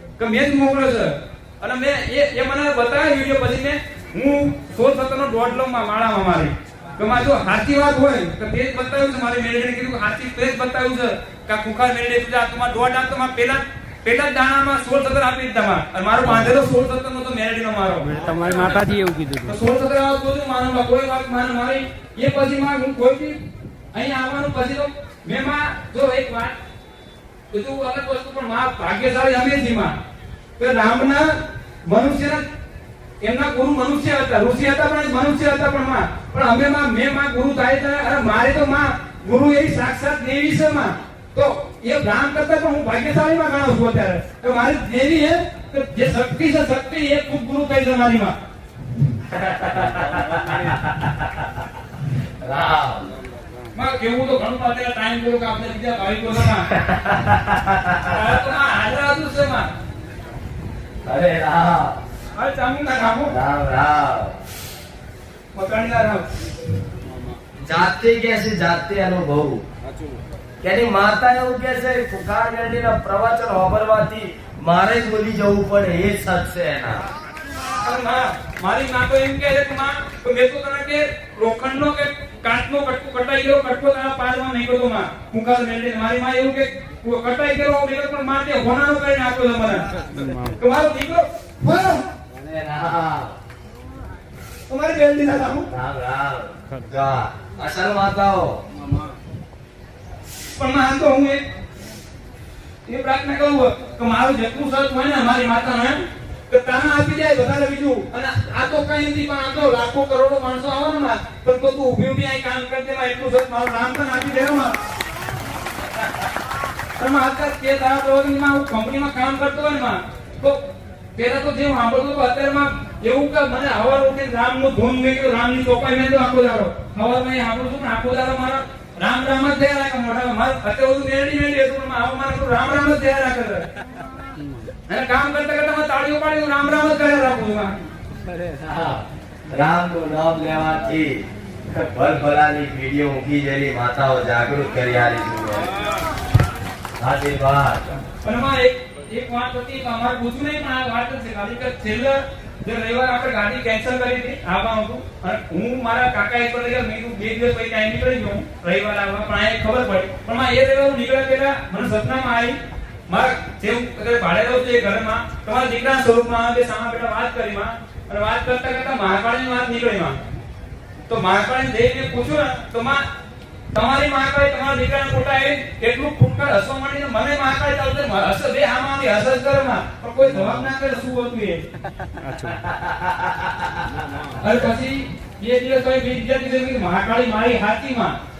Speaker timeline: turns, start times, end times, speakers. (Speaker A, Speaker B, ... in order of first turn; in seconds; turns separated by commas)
Speaker A: 0.2-18.7, Speaker B: 16.2-16.5, Speaker B: 18.0-19.6, Speaker A: 19.4-23.4, Speaker A: 23.9-26.5, Speaker A: 27.5-29.9, Speaker A: 30.6-31.3, Speaker A: 31.9-32.4, Speaker A: 33.2-48.4, Speaker A: 49.3-50.3, Speaker C: 49.4-51.6, Speaker C: 52.4-53.1, Speaker A: 53.7-56.7, Speaker C: 56.7-58.2, Speaker A: 58.0-59.7, Speaker C: 61.0-62.0, Speaker A: 62.3-63.3, Speaker C: 63.3-64.4, Speaker A: 65.5-66.2, Speaker C: 67.6-69.6, Speaker C: 70.6-77.0, Speaker A: 77.8-89.8, Speaker B: 90.1-90.6, Speaker A: 90.6-92.1, Speaker C: 92.3-93.4, Speaker A: 94.7-95.7, Speaker C: 95.7-98.6, Speaker A: 100.5-101.4, Speaker A: 102.8-114.8, Speaker A: 117.0-120.6, Speaker A: 121.1-133.7, Speaker A: 134.9-137.8, Speaker C: 138.4-145.7, Speaker C: 147.0-147.8, Speaker A: 148.2-162.6, Speaker A: 163.1-170.2, Speaker A: 171.1-173.0, Speaker A: 173.7-181.6, Speaker B: 180.3-180.6, Speaker B: 182.2-182.6, Speaker C: 182.6-183.9, Speaker A: 184.3-188.2